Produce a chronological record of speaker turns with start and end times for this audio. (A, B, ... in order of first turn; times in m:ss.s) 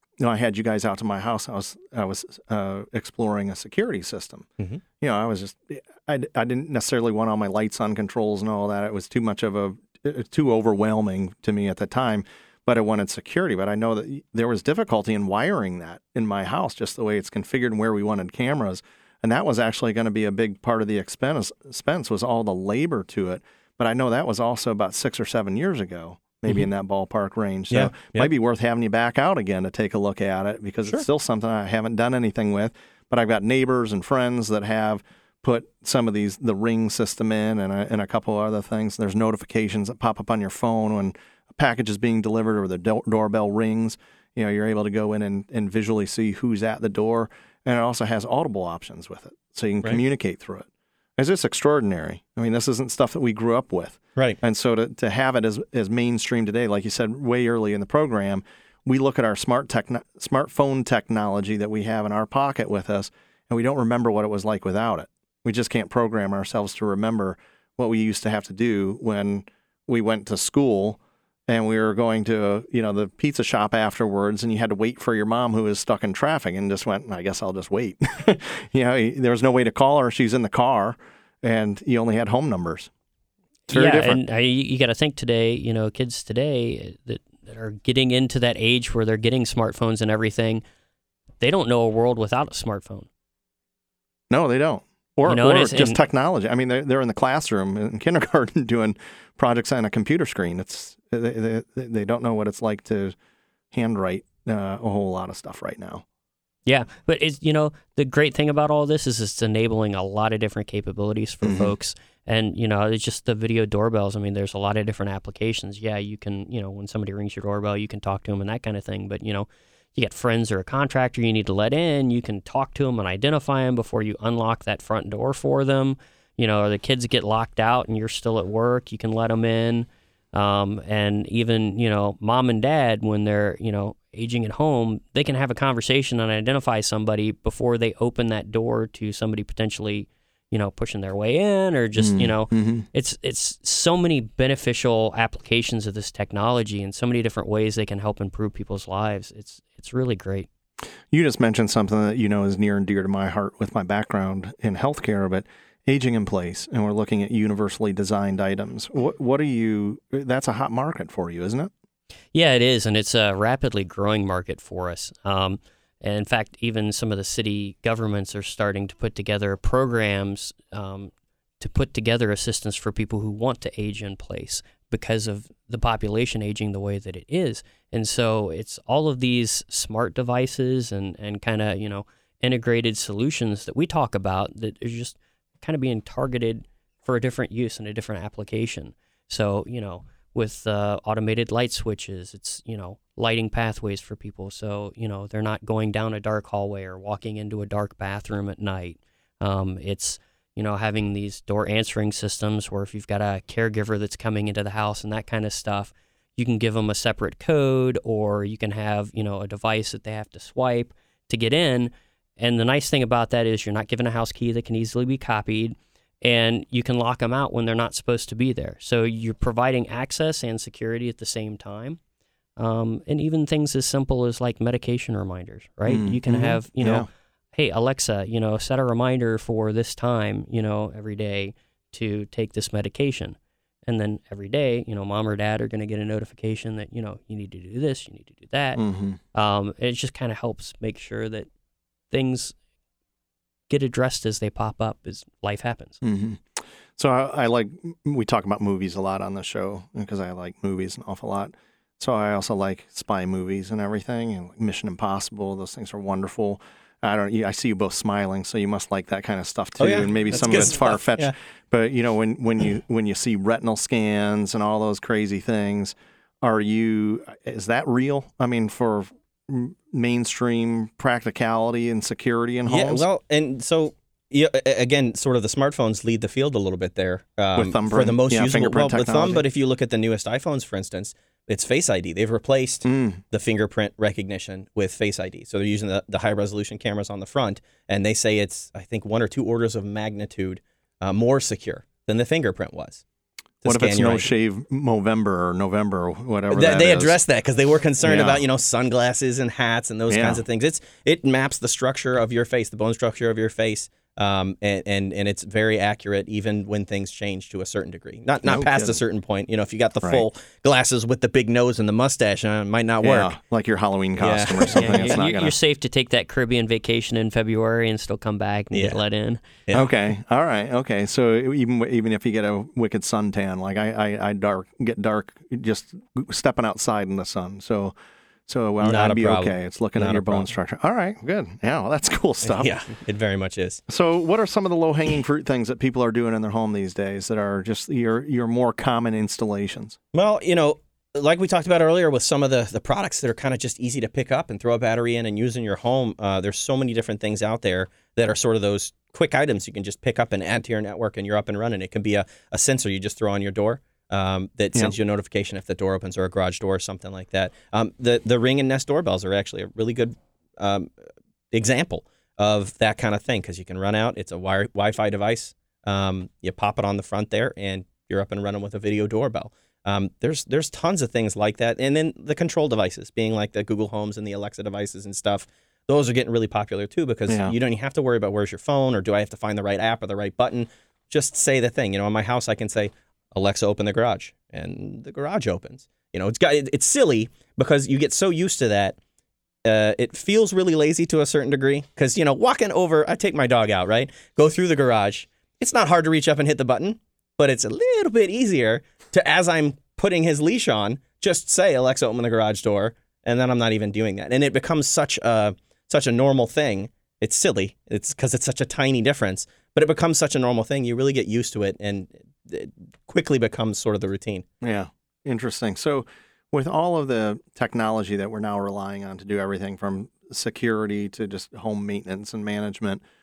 0:00.2-0:04.5 A
0:05.0-1:22.9 A
0:27.7-0:28.3 B
1:23.7-1:24.2 A
1:23.7-1:30.6 C
1:31.4-1:33.1 C
1:34.3-1:43.1 A
1:35.2-1:36.0 C
1:43.7-1:46.0 A
1:46.6-2:30.5 C
1:51.4-1:51.7 A
2:22.0-2:22.8 A
2:31.1-2:41.7 A
2:42.3-3:42.0 C
3:42.6-3:58.8 C
3:45.9-3:47.1 A
3:58.8-3:59.2 A
3:59.3-4:01.5 C
4:02.1-4:02.5 C
4:03.7-4:06.0 C
4:06.0-4:33.0 A
4:19.8-4:21.3 B
4:32.7-4:53.0 B
4:37.6-4:39.4 A
4:42.8-4:43.2 A
4:53.6-4:54.3 B
4:53.6-4:57.2 A
4:56.5-5:13.4 B
4:58.0-4:58.4 A
5:00.1-5:00.4 A
5:08.4-5:09.0 A
5:13.0-5:15.5 A
5:14.2-5:15.2 B
5:14.7-5:19.4 C
5:18.7-5:19.0 B
5:19.7-5:19.9 B
5:19.7-5:27.9 A
5:28.5-5:32.7 A
5:28.8-5:30.5 B
5:32.4-5:33.8 B
5:33.9-5:40.0 A
5:40.1-6:00.9 B
6:01.5-6:29.0 B
6:17.3-6:17.6 A
6:29.6-6:54.4 B
6:54.6-7:03.0 A